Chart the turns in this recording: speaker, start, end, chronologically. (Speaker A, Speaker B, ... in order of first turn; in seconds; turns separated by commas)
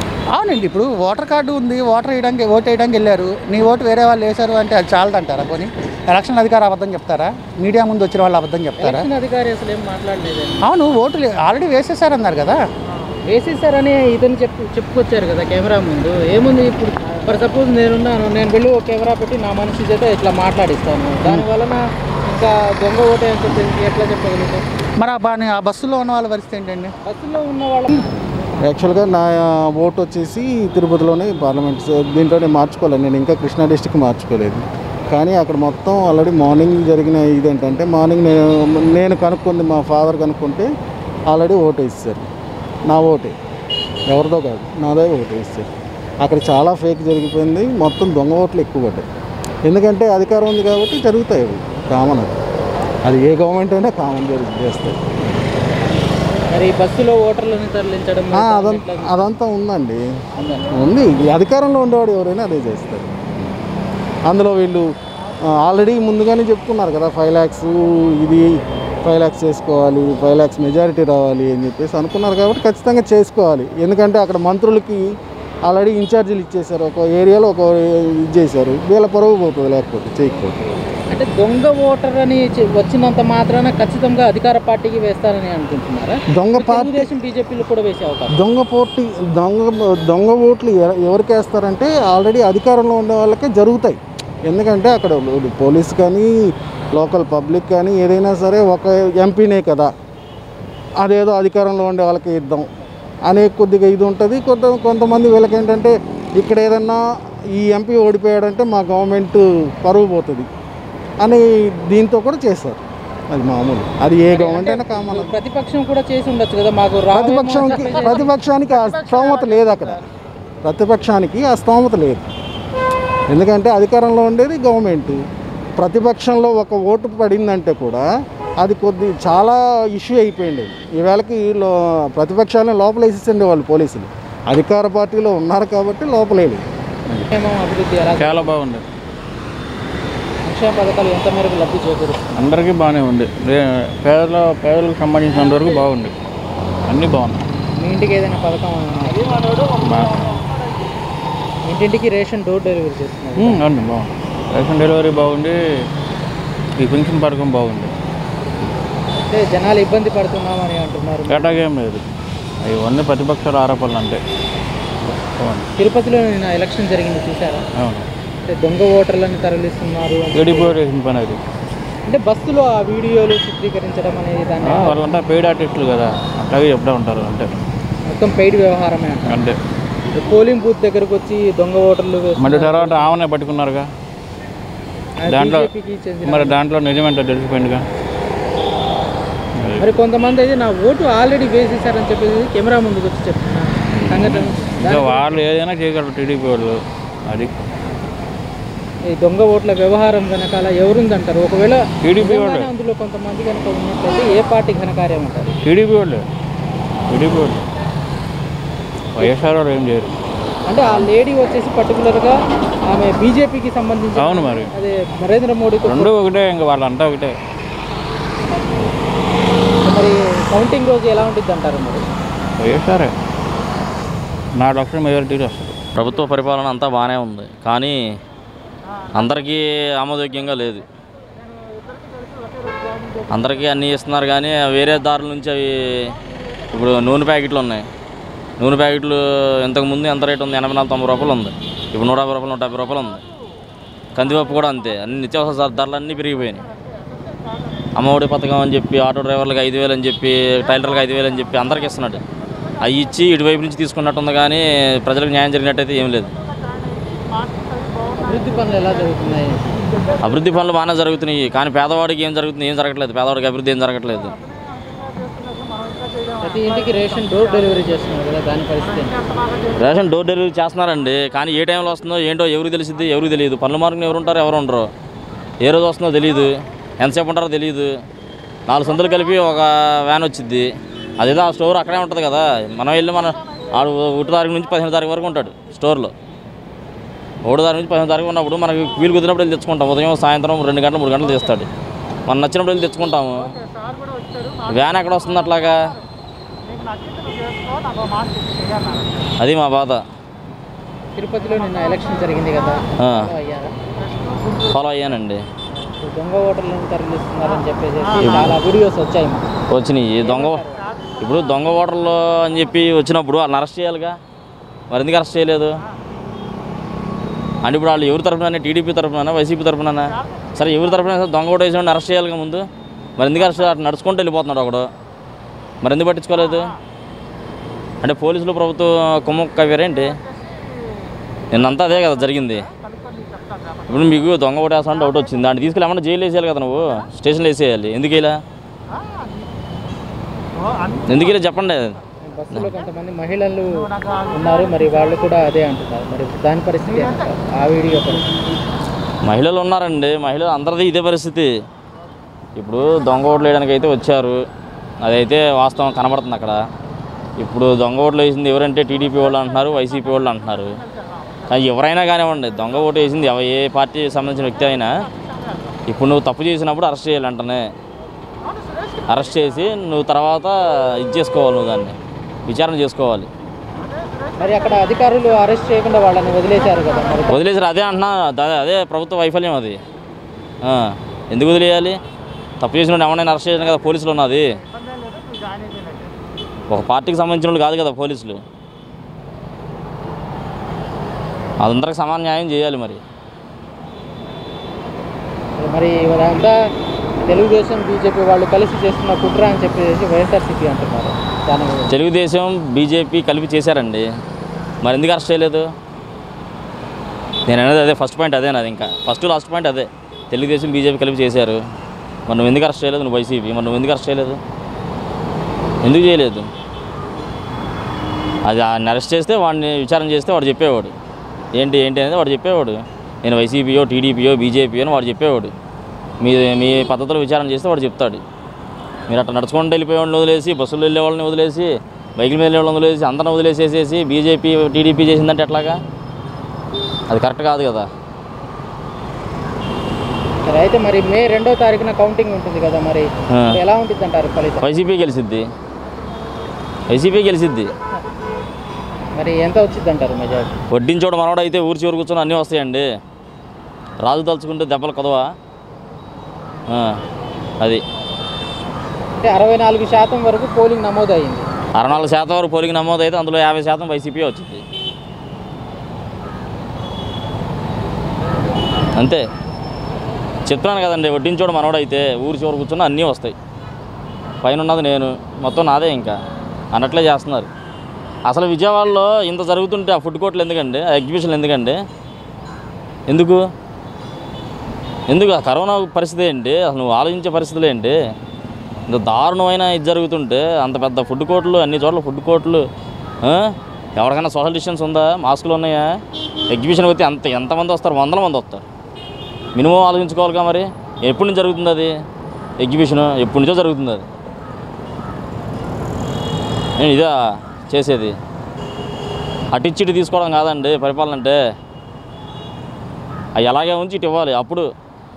Speaker A: 0.3-9.1, Speaker B: 8.8-10.7, Speaker A: 10.6-12.7, Speaker B: 13.2-24.6, Speaker A: 25.0-26.9, Speaker B: 27.0-28.1, Speaker C: 28.6-40.7, Speaker C: 41.3-42.3, Speaker C: 42.9-43.4, Speaker C: 44.1-45.7, Speaker C: 46.2-49.0, Speaker C: 49.6-52.4, Speaker C: 53.0-55.4, Speaker B: 56.5-59.3, Speaker C: 58.3-60.0, Speaker B: 60.4-60.6, Speaker C: 60.7-63.5, Speaker C: 64.3-64.9, Speaker C: 65.5-68.5, Speaker C: 69.0-75.0, Speaker C: 75.6-80.6, Speaker B: 81.1-88.3, Speaker C: 86.3-87.1, Speaker C: 88.3-99.9, Speaker C: 101.0-102.7, Speaker C: 103.2-110.5, Speaker C: 111.2-115.3, Speaker B: 114.3-119.9, Speaker C: 117.1-120.0, Speaker C: 120.6-122.3, Speaker C: 123.3-125.2, Speaker C: 125.8-128.0, Speaker C: 128.6-136.7, Speaker B: 137.3-138.5, Speaker D: 138.2-138.8, Speaker B: 140.4-142.5, Speaker D: 142.3-146.1, Speaker D: 146.9-147.4, Speaker B: 147.8-149.7, Speaker D: 149.8-150.4, Speaker B: 151.7-153.6, Speaker D: 153.4-155.6, Speaker D: 156.8-157.9, Speaker B: 159.3-161.6, Speaker D: 161.3-162.0, Speaker D: 162.6-164.2, Speaker D: 165.0-165.7, Speaker B: 165.8-167.6, Speaker D: 167.8-168.1, Speaker B: 168.4-170.7, Speaker D: 170.3-171.4, Speaker B: 172.1-175.0, Speaker D: 174.6-177.5, Speaker B: 178.1-179.4, Speaker D: 179.3-179.6, Speaker B: 180.1-183.1, Speaker D: 182.4-183.9, Speaker B: 185.2-186.6, Speaker D: 185.3-185.7, Speaker D: 186.2-187.8, Speaker D: 189.6-189.9, Speaker B: 189.8-195.4, Speaker D: 193.9-197.5, Speaker B: 199.1-205.6, Speaker D: 202.0-202.7, Speaker D: 205.6-206.2, Speaker D: 207.1-207.6, Speaker D: 209.2-210.2, Speaker B: 210.7-212.4, Speaker D: 210.8-211.1, Speaker B: 212.9-216.1, Speaker D: 214.2-214.7, Speaker D: 215.8-217.3, Speaker B: 219.8-222.0, Speaker D: 222.6-223.1, Speaker D: 224.6-225.8, Speaker E: 225.9-228.0, Speaker E: 229.1-230.8, Speaker E: 233.3-236.1, Speaker E: 236.7-237.8, Speaker E: 238.6-243.2, Speaker E: 244.1-246.6, Speaker E: 247.9-252.2, Speaker E: 252.8-256.3, Speaker B: 258.1-260.1, Speaker E: 260.2-264.3, Speaker B: 266.4-269.2, Speaker E: 269.8-274.9, Speaker E: 275.6-278.0, Speaker E: 278.7-286.1, Speaker E: 287.4-291.7, Speaker E: 292.3-293.5, Speaker E: 294.7-295.8, Speaker E: 299.4-300.0, Speaker B: 301.1-303.7, Speaker E: 303.0-303.3, Speaker E: 304.7-305.4, Speaker B: 306.0-309.5, Speaker E: 308.2-308.6, Speaker E: 309.7-310.6, Speaker B: 310.2-310.8, Speaker E: 311.2-314.2, Speaker E: 314.9-315.7, Speaker E: 317.6-322.6, Speaker E: 323.2-324.9, Speaker E: 325.8-326.7, Speaker E: 328.0-330.2, Speaker E: 331.5-332.7, Speaker E: 333.9-338.4, Speaker E: 341.1-342.0, Speaker B: 342.2-348.4, Speaker E: 349.2-351.6, Speaker E: 352.6-354.4, Speaker E: 355.0-356.6, Speaker E: 357.4-360.8, Speaker E: 361.5-364.9, Speaker E: 365.9-367.7, Speaker E: 369.1-371.9, Speaker E: 372.5-373.3, Speaker B: 374.4-377.4, Speaker E: 377.3-379.8, Speaker E: 380.6-382.0, Speaker E: 382.6-384.5, Speaker E: 386.7-388.4, Speaker E: 391.6-393.0, Speaker B: 395.6-396.6, Speaker B: 397.2-401.9, Speaker E: 401.9-404.1, Speaker E: 404.8-405.7, Speaker E: 407.5-411.6, Speaker E: 412.3-414.4, Speaker E: 415.8-416.5, Speaker E: 418.4-420.9, Speaker E: 421.6-425.5, Speaker E: 426.2-428.2, Speaker E: 429.1-435.8, Speaker E: 437.1-437.9, Speaker B: 440.4-444.7, Speaker E: 443.3-443.6, Speaker E: 444.6-445.5, Speaker E: 446.9-447.7, Speaker B: 449.1-450.6, Speaker E: 450.7-452.8, Speaker E: 454.0-455.2, Speaker E: 456.7-457.0, Speaker B: 459.2-461.5, Speaker E: 461.7-464.6, Speaker E: 469.0-469.2, Speaker E: 470.4-473.3, Speaker E: 474.4-476.1, Speaker E: 476.7-477.5, Speaker E: 478.3-481.8, Speaker E: 483.1-483.4, Speaker E: 485.1-487.9, Speaker E: 488.9-492.6, Speaker E: 493.2-495.9, Speaker E: 496.5-498.6, Speaker E: 499.6-501.9, Speaker E: 502.6-504.0, Speaker E: 506.8-507.1, Speaker E: 507.7-508.1, Speaker E: 509.5-511.4, Speaker E: 513.4-514.7